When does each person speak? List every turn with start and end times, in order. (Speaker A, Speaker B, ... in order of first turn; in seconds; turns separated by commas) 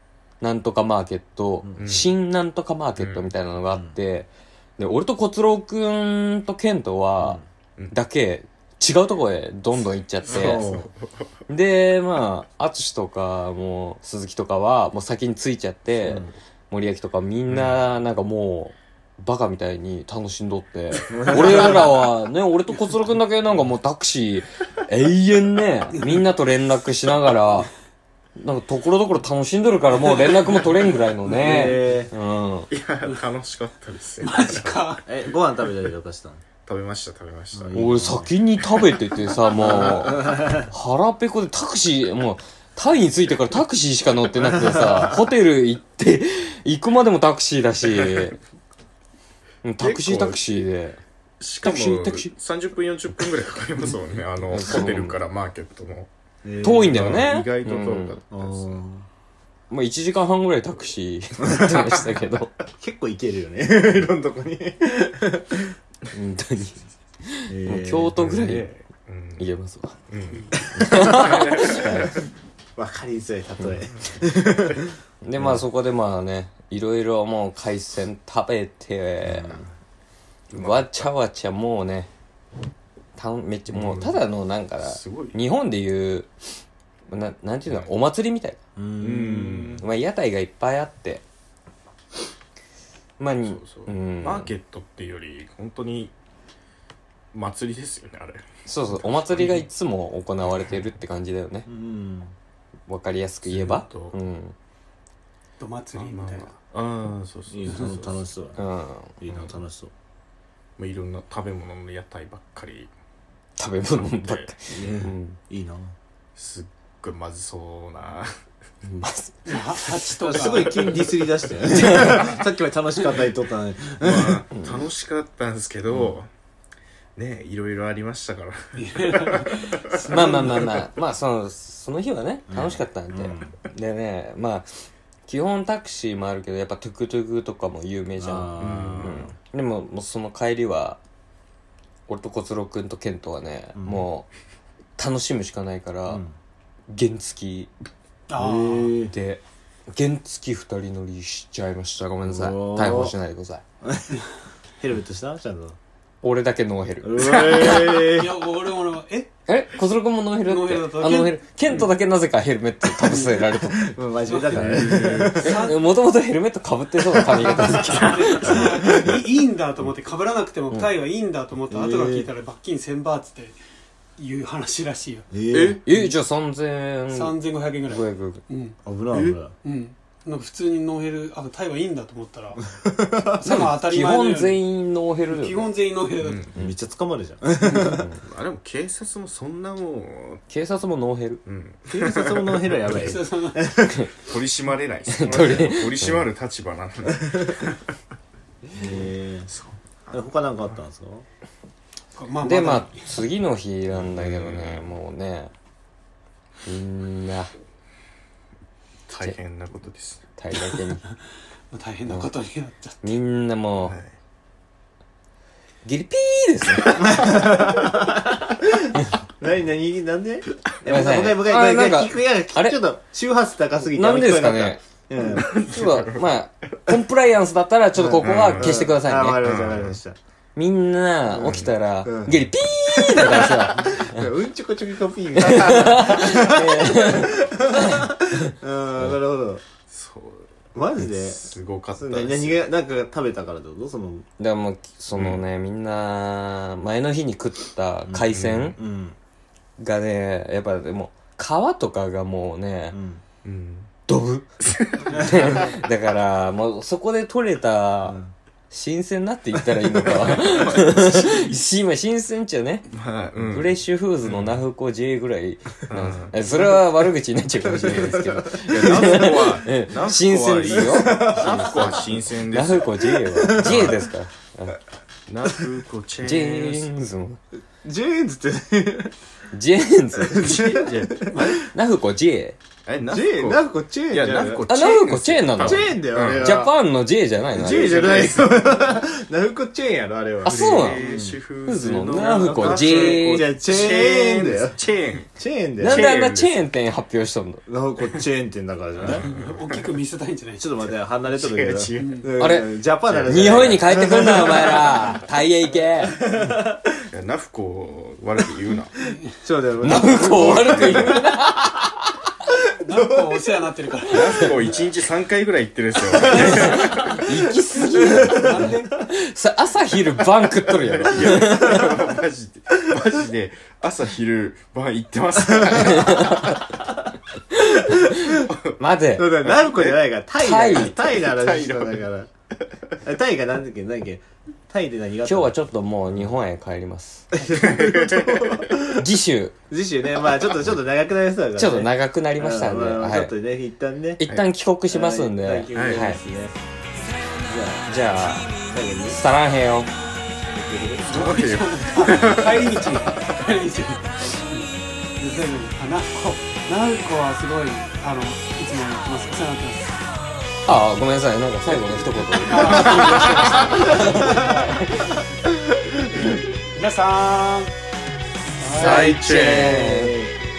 Speaker A: 0.4-10.7, Speaker B: 1.8-2.1, Speaker B: 3.0-3.3, Speaker C: 10.3-10.9, Speaker B: 10.3-11.2, Speaker A: 11.5-27.7, Speaker C: 16.1-16.3, Speaker B: 17.5-17.8, Speaker C: 21.1-21.9, Speaker B: 21.1-21.8, Speaker A: 28.4-32.7, Speaker C: 31.4-32.1, Speaker B: 32.7-34.9, Speaker D: 34.2-35.0, Speaker C: 35.1-36.4, Speaker B: 36.6-37.8, Speaker C: 37.5-38.3, Speaker A: 37.8-48.4, Speaker C: 39.6-40.7, Speaker A: 49.6-51.0, Speaker B: 49.8-50.4, Speaker B: 51.4-56.1, Speaker A: 51.6-52.3, Speaker A: 54.5-55.2, Speaker C: 56.4-57.2, Speaker A: 56.6-58.2, Speaker B: 56.8-58.8, Speaker C: 58.3-59.1, Speaker A: 59.7-62.5, Speaker C: 61.5-61.8, Speaker C: 62.8-65.7, Speaker A: 66.1-68.7, Speaker C: 67.5-68.2, Speaker B: 68.2-69.5, Speaker A: 69.4-70.0, Speaker B: 70.1-72.3, Speaker A: 70.7-72.2, Speaker C: 72.8-75.6, Speaker A: 75.2-79.6, Speaker C: 79.2-79.7, Speaker B: 80.5-81.1, Speaker A: 80.5-82.1, Speaker A: 83.2-86.3, Speaker B: 83.7-84.2, Speaker B: 84.8-85.4, Speaker A: 87.1-88.6, Speaker C: 88.8-89.8, Speaker B: 89.0-89.8, Speaker A: 89.8-91.2, Speaker A: 93.2-94.5, Speaker B: 93.5-96.1, Speaker B: 97.3-98.5, Speaker A: 98.7-101.7, Speaker B: 99.3-99.6, Speaker C: 101.7-102.3, Speaker A: 102.9-104.5, Speaker B: 103.5-104.2, Speaker D: 105.6-106.6, Speaker B: 105.9-108.0, Speaker C: 107.5-108.6, Speaker D: 107.7-108.2, Speaker A: 108.6-109.1, Speaker C: 109.2-109.9, Speaker B: 109.3-109.6, Speaker B: 110.8-112.9, Speaker A: 113.6-115.4, Speaker B: 113.9-115.0, Speaker C: 114.7-115.9, Speaker B: 116.4-118.3, Speaker A: 118.8-119.8, Speaker D: 119.5-120.9, Speaker C: 120.3-124.5, Speaker A: 121.7-122.2, Speaker B: 124.0-126.3, Speaker C: 125.9-126.2, Speaker B: 127.2-130.0, Speaker D: 128.8-130.8, Speaker A: 130.1-134.7, Speaker C: 132.5-133.5, Speaker A: 135.3-141.0, Speaker C: 138.2-139.3, Speaker B: 138.6-139.3, Speaker A: 142.1-144.3, Speaker C: 143.8-144.1, Speaker A: 145.0-146.2, Speaker C: 146.1-146.4, Speaker A: 146.9-147.7, Speaker D: 148.3-148.9, Speaker C: 148.4-149.1, Speaker A: 149.1-153.6, Speaker C: 152.2-153.2, Speaker C: 153.8-154.1, Speaker C: 154.8-155.8, Speaker A: 156.2-158.0, Speaker C: 157.0-158.4, Speaker B: 157.3-157.8, Speaker D: 158.0-159.3, Speaker A: 159.5-163.9, Speaker D: 160.4-161.8, Speaker D: 163.0-163.4, Speaker C: 163.7-165.6, Speaker D: 164.3-164.7, Speaker B: 164.5-165.4, Speaker A: 164.6-168.7, Speaker D: 165.3-165.8, Speaker C: 167.0-167.9, Speaker D: 167.9-173.6, Speaker C: 168.4-169.2, Speaker C: 171.7-172.3, Speaker D: 174.2-175.3, Speaker C: 175.3-175.8, Speaker B: 175.5-175.8, Speaker A: 175.8-178.4, Speaker D: 177.1-182.6, Speaker C: 178.9-179.5, Speaker C: 182.8-183.4, Speaker D: 183.3-184.6, Speaker A: 183.4-185.7, Speaker D: 185.3-186.5, Speaker B: 186.2-186.6, Speaker C: 186.6-188.1, Speaker D: 187.6-188.0, Speaker A: 187.8-188.2, Speaker B: 188.2-190.4, Speaker A: 190.5-191.4, Speaker B: 191.5-193.0, Speaker C: 191.9-194.0, Speaker D: 192.9-193.7, Speaker B: 194.2-197.8, Speaker A: 195.1-196.3, Speaker C: 198.7-199.5, Speaker B: 199.5-200.2, Speaker C: 200.1-201.2, Speaker D: 202.2-203.1, Speaker A: 202.4-205.5, Speaker B: 203.9-204.9, Speaker A: 206.7-207.5, Speaker B: 209.1-210.2, Speaker A: 210.4-211.1, Speaker D: 211.7-213.0, Speaker A: 213.0-214.0, Speaker B: 213.8-214.2, Speaker A: 215.8-217.0, Speaker C: 216.9-225.5, Speaker A: 220.9-222.8, Speaker A: 223.9-224.8, Speaker B: 225.4-226.8, Speaker A: 225.5-229.4, Speaker C: 227.9-230.2, Speaker B: 228.2-228.7, Speaker B: 229.4-230.0, Speaker A: 230.6-234.2, Speaker B: 231.4-231.7, Speaker C: 232.1-239.6, Speaker A: 235.4-238.1, Speaker B: 239.9-242.6, Speaker C: 240.7-244.3, Speaker A: 244.4-248.8, Speaker B: 245.1-245.4, Speaker C: 248.1-249.2, Speaker B: 248.3-248.8, Speaker A: 249.8-253.0, Speaker C: 252.9-253.2, Speaker B: 253.4-253.9, Speaker A: 254.1-254.5, Speaker B: 254.6-255.7, Speaker A: 255.0-262.9, Speaker C: 258.1-258.3, Speaker B: 259.8-261.6, Speaker B: 262.9-264.6, Speaker A: 263.4-274.8, Speaker B: 265.9-266.4, Speaker C: 267.6-268.1, Speaker B: 268.5-274.0, Speaker C: 270.8-272.2, Speaker C: 273.0-274.0, Speaker B: 275.3-276.9, Speaker A: 276.2-277.4, Speaker C: 277.8-279.1, Speaker A: 279.5-280.5, Speaker C: 280.2-281.5, Speaker B: 280.2-281.7, Speaker D: 281.3-281.6, Speaker A: 281.7-282.6, Speaker B: 282.9-286.7, Speaker C: 283.1-284.7, Speaker A: 284.7-288.0, Speaker C: 285.6-286.7, Speaker B: 287.5-288.8, Speaker C: 287.6-291.4, Speaker A: 290.4-291.1, Speaker B: 290.4-296.6, Speaker A: 291.6-293.5, Speaker C: 292.8-294.8, Speaker C: 295.4-296.1, Speaker A: 295.8-297.6, Speaker C: 297.7-299.3, Speaker B: 299.0-299.9, Speaker D: 299.2-300.6, Speaker C: 300.6-305.0, Speaker B: 301.3-302.3, Speaker D: 302.0-302.3, Speaker A: 302.4-302.7, Speaker B: 303.1-303.9, Speaker A: 303.3-306.2, Speaker C: 306.3-306.8, Speaker B: 307.1-308.9, Speaker C: 309.4-311.3, Speaker A: 309.8-312.1, Speaker B: 309.9-311.2, Speaker D: 312.7-314.7, Speaker C: 312.9-313.2, Speaker B: 314.1-317.3, Speaker C: 316.1-318.7, Speaker A: 316.2-321.9, Speaker D: 318.2-318.9, Speaker B: 320.9-326.6, Speaker A: 325.9-326.6, Speaker A: 327.7-328.2, Speaker B: 328.3-328.7, Speaker A: 328.8-329.3, Speaker C: 329.2-332.3, Speaker B: 329.4-330.1, Speaker A: 330.4-331.0, Speaker B: 330.7-332.1, Speaker C: 333.0-335.6, Speaker A: 335.2-337.3, Speaker C: 337.4-339.0, Speaker B: 337.6-338.7, Speaker A: 338.9-339.6, Speaker C: 339.7-344.2, Speaker A: 341.6-343.3, Speaker A: 344.2-346.2, Speaker C: 344.9-346.5, Speaker B: 345.7-346.0, Speaker C: 347.5-347.9, Speaker A: 347.9-348.6, Speaker C: 348.6-349.2, Speaker A: 349.1-349.9, Speaker B: 350.6-353.1, Speaker D: 351.1-360.0, Speaker A: 360.7-365.1, Speaker D: 362.3-364.9, Speaker D: 366.2-367.7, Speaker D: 368.6-369.1, Speaker C: 368.7-370.3, Speaker A: 368.8-370.2, Speaker B: 368.8-369.6